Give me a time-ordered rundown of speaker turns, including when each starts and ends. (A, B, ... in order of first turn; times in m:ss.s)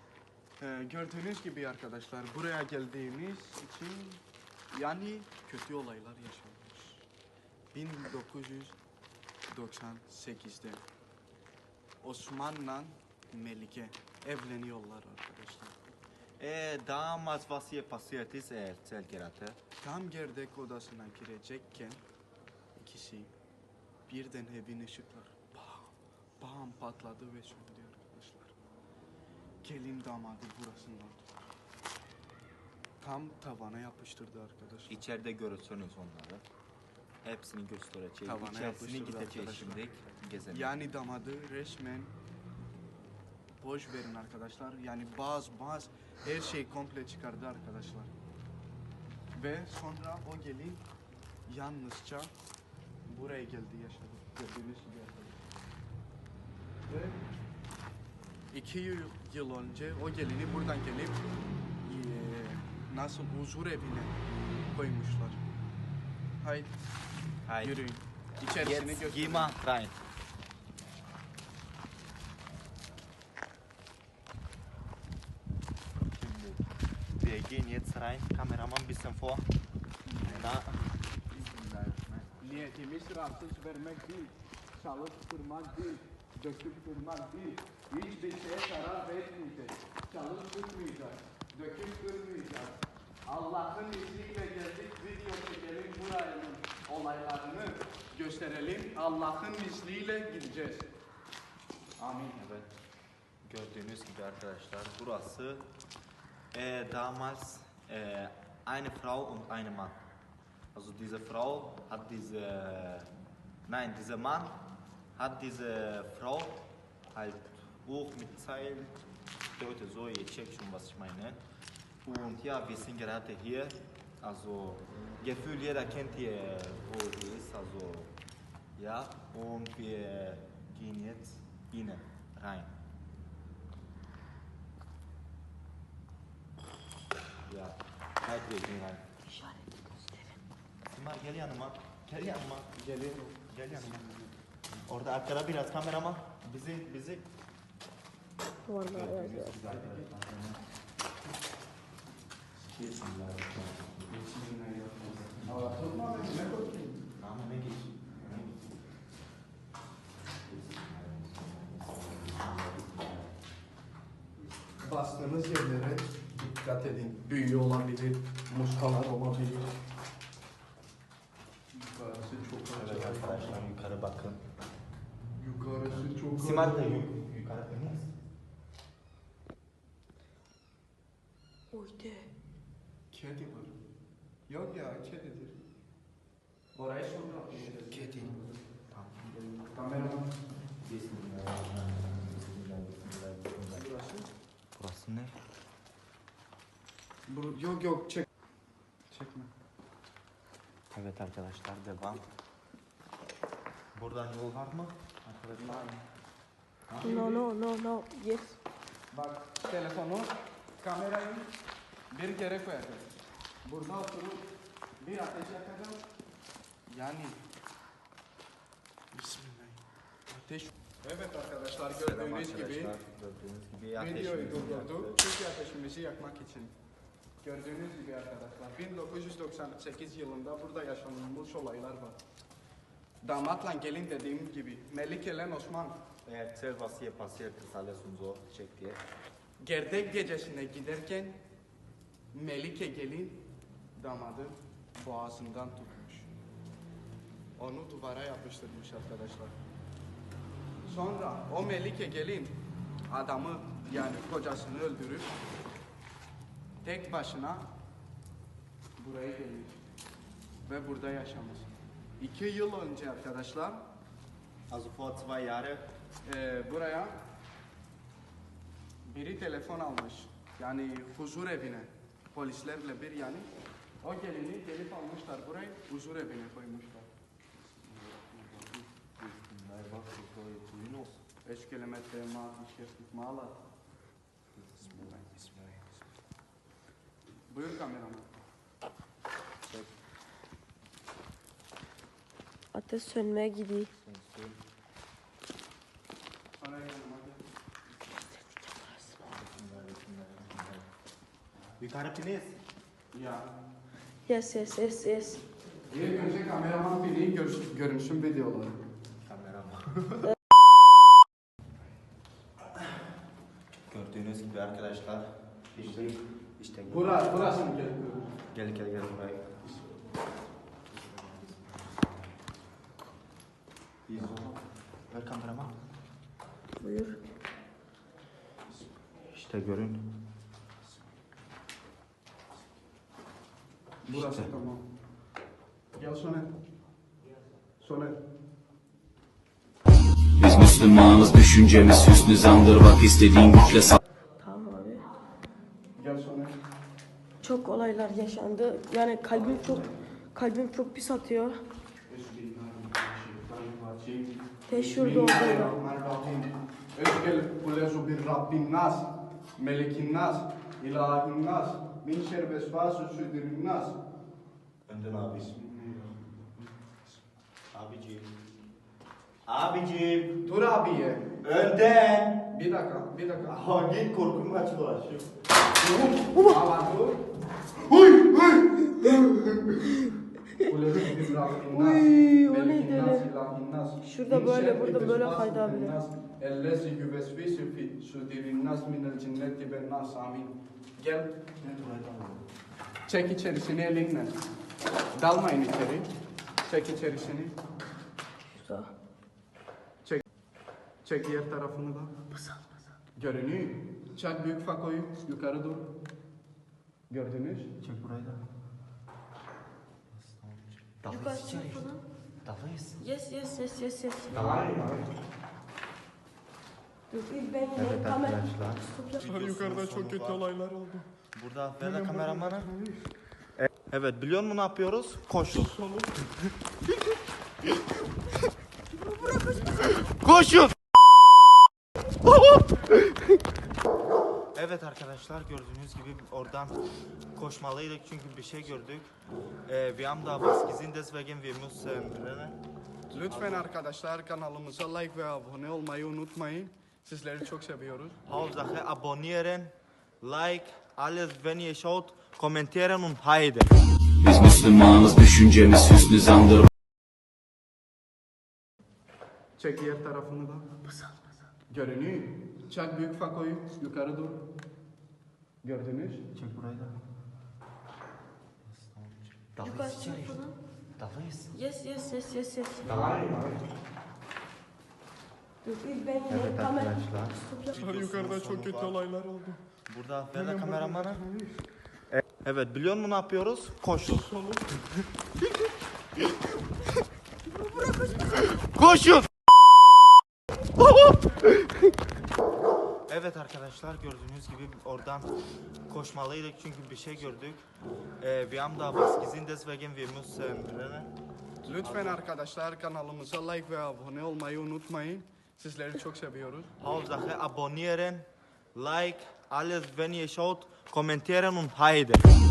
0:00.6-0:04.2 A
0:04.7-0:07.0 A
0:07.7-0:08.8 A
0:09.5-0:10.8 A
0:12.0-0:15.8 A
0:16.4-0:19.6 B
0:19.8-0:22.0 A
0:22.8-0:23.3 A
0:24.1-0:28.5 A
0:29.6-0:31.3 A
0:33.0-0:35.0 A
0:34.9-0:36.4 B
0:37.2-0:40.8 B
0:38.2-0:39.8 A
0:40.5-0:42.1 A
0:43.6-0:48.1 A
0:49.3-0:50.8 A
0:51.5-0:52.3 A
0:53.0-0:55.4 A
0:56.9-0:57.2 A
0:58.5-1:01.2 A
1:01.8-1:04.2 A
1:04.7-1:05.4 A
1:06.4-1:06.7 A
1:07.4-1:07.8 B
1:07.6-1:09.5 A
1:08.4-1:10.0 B
1:16.1-1:16.6 B
1:17.2-1:19.4 B
1:20.0-1:20.7 A
1:20.2-1:22.4 B
1:22.4-1:40.9 A
1:42.0-1:42.5 A
1:42.4-1:42.6 B
1:43.4-1:45.6 B
1:46.5-1:50.0 B
1:50.7-1:53.1 B
1:53.7-1:54.6 B
1:55.2-1:56.6 B
1:57.1-1:58.9 B
1:59.5-2:01.4 B
2:02.0-2:08.1 B
2:08.8-2:12.7 B
2:17.5-2:19.0 B
2:19.2-2:20.4 C
2:20.9-2:22.7 B
2:22.7-2:24.3 A
2:23.5-2:24.1 B
2:24.9-2:27.2 B
2:28.6-2:29.5 C
2:28.9-2:30.6 B
2:29.6-2:30.0 A
2:32.6-2:34.2 B
2:34.1-2:37.0 A
2:35.1-2:35.9 B
2:37.2-2:38.7 B
2:40.4-2:43.4 B
2:44.4-2:44.8 B
2:44.8-2:49.7 A
2:51.7-2:53.6 A
2:52.7-2:54.4 B
2:55.4-2:57.1 A
2:55.7-2:58.1 B
3:01.7-3:02.3 C
3:03.1-3:03.7 A
3:04.5-3:05.6 A
3:06.7-3:08.6 A
3:07.7-3:09.4 B
3:09.5-3:10.3 A
3:10.8-3:13.8 B
3:13.7-3:14.3 A
3:14.7-3:15.4 B
3:17.3-3:18.2 A
3:19.1-3:19.5 A
3:20.9-3:22.2 B
3:23.9-3:25.9 B
3:25.6-3:26.0 A
3:26.9-3:27.1 B
3:27.0-3:27.5 A
3:27.0-3:28.6 C
3:29.1-3:31.5 A
3:32.1-3:33.1 A
3:33.6-3:34.5 A
3:35.0-3:36.0 A
3:36.9-3:37.4 A
3:39.1-3:42.9 A
3:41.9-3:45.2 B
3:44.0-3:46.7 A
3:47.4-3:52.2 A
3:53.2-3:56.0 A
3:56.2-3:59.0 B
3:59.6-4:01.4 A
4:02.3-4:03.4 A
4:04.0-4:06.3 A
4:07.6-4:09.6 A
4:10.8-4:12.6 A
4:13.1-4:15.3 A
4:16.8-4:17.7 A
4:19.0-4:19.8 A
4:20.7-4:23.8 A
4:24.7-4:25.8 B
4:26.2-4:27.2 A
4:29.0-4:33.5 A
4:34.0-4:37.1 A
4:37.9-4:41.2 B
4:41.4-4:43.6 A
4:44.6-4:45.8 B
4:44.8-4:45.5 A
4:47.5-4:48.3 A
4:49.7-4:49.9 B
4:52.7-4:53.9 C
4:53.9-4:54.6 B
4:56.6-4:57.4 A
4:58.6-4:59.2 C
4:59.3-5:00.9 B
5:01.8-5:02.6 B
5:03.1-5:03.5 A
5:04.2-5:05.4 C
5:05.9-5:08.8 A
5:09.2-5:10.2 B
5:13.9-5:17.5 B
5:15.8-5:16.0 A
5:16.9-5:18.3 A
5:18.5-5:19.5 B
5:21.1-5:22.1 B
5:24.1-5:24.6 B
5:25.1-5:25.7 B
5:26.8-5:27.2 C
5:29.3-5:30.1 B
5:34.0-5:34.8 A
5:34.1-5:34.5 B
5:36.0-5:36.5 A
5:37.8-5:38.2 A
5:40.4-5:43.9 D
5:44.4-5:45.0 C
5:46.0-5:46.6 A
5:47.4-5:49.8 C
5:49.3-5:49.9 A
5:50.3-5:51.6 C
5:52.1-6:04.0 A
5:54.7-5:55.8 C
6:04.9-6:05.5 B
6:05.3-6:07.2 A
6:07.7-6:08.3 B
6:09.4-6:10.4 B
6:10.4-6:11.3 A
6:11.4-6:12.4 B
6:12.5-6:13.6 A
6:13.4-6:15.2 B
6:15.8-6:17.2 A
6:17.9-6:19.8 A
6:20.6-6:31.4 A
6:21.7-6:23.3 C
6:24.0-6:26.0 C
6:31.6-6:32.4 B
6:33.0-6:34.4 A
6:35.1-6:36.1 A
6:36.6-6:37.6 A
6:38.5-6:38.9 C
6:41.0-6:42.1 A
6:43.1-6:45.9 A
6:47.1-6:47.7 A
6:47.8-6:48.4 B
6:50.1-6:51.9 B
6:51.1-6:52.0 C
6:52.4-6:53.0 B
6:53.0-6:54.7 C
6:54.3-6:55.0 B
6:57.1-6:59.3 C
6:57.7-7:00.7 B
7:01.3-7:02.7 B
7:03.6-7:05.9 B
7:09.8-7:10.8 B
7:14.5-7:16.8 B
7:17.3-7:19.1 B
7:19.7-7:22.6 B
7:23.1-7:28.2 A
7:23.2-7:23.6 B
7:28.2-7:33.7 B
7:34.2-7:36.7 D
7:39.6-7:40.7 A
7:41.7-7:44.4 A
7:45.6-7:46.2 A
7:46.3-7:47.0 B
7:48.6-7:50.4 B
7:49.6-7:50.6 C
7:51.0-7:51.5 B
7:51.5-7:53.0 C
7:52.8-7:53.4 B
7:55.6-7:57.8 C
7:56.3-7:59.1 B
7:59.0-7:59.6 A
7:59.8-8:01.2 B
8:02.2-8:04.5 B
8:08.2-8:09.3 B
8:13.1-8:15.3 B
8:15.9-8:17.7 B
8:18.2-8:21.1 B
8:21.6-8:26.7 A
8:21.8-8:22.2 B
8:26.8-8:32.2 B